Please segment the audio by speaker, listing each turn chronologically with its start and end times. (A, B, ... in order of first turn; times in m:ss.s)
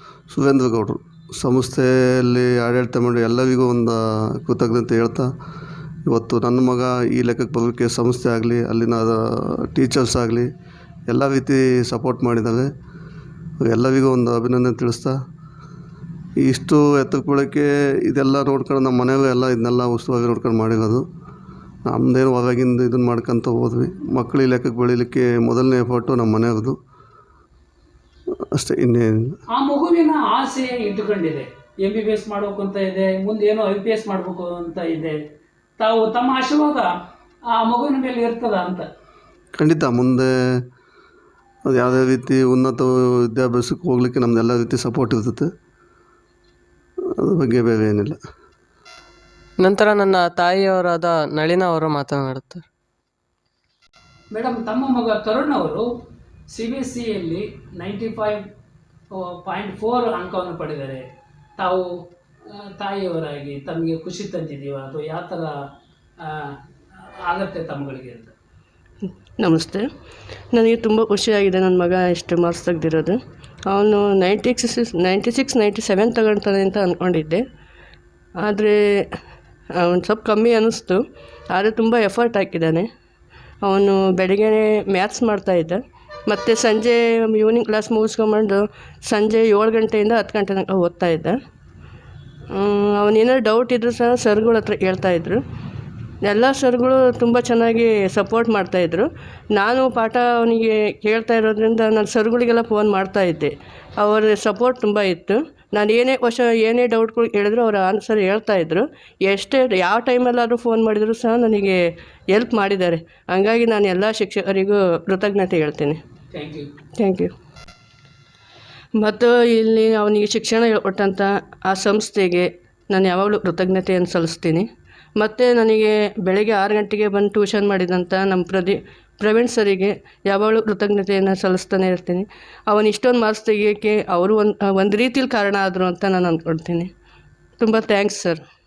0:00.3-0:05.3 A
0:06.1-0:10.5 A
0:11.1-0:12.7 A
0:13.6-0:15.1 A
0:16.4-0:21.0 A
0:21.9-0:26.8 A
0:28.5-0:29.4 A
0:29.5-0:35.2 B
0:35.8-0:36.9 B
0:37.5-0:38.9 B
0:39.6-0:40.3 A
0:41.7-0:45.5 A
0:47.2-0:48.2 A
0:49.6-0:52.6 C
0:54.3-0:55.8 B
0:56.5-0:58.4 B
0:59.1-1:01.0 B
1:01.6-1:01.9 B
1:02.5-1:05.5 B
1:06.2-1:08.3 B
1:09.4-1:09.9 D
1:10.5-1:17.4 D
1:18.4-1:19.2 D
1:19.8-1:22.9 D
1:23.6-1:31.4 D
1:32.5-1:35.4 D
1:36.2-1:56.0 D
1:56.3-1:56.7 B
1:57.0-1:57.3 D
1:59.0-2:16.9 D
2:17.6-2:18.4 D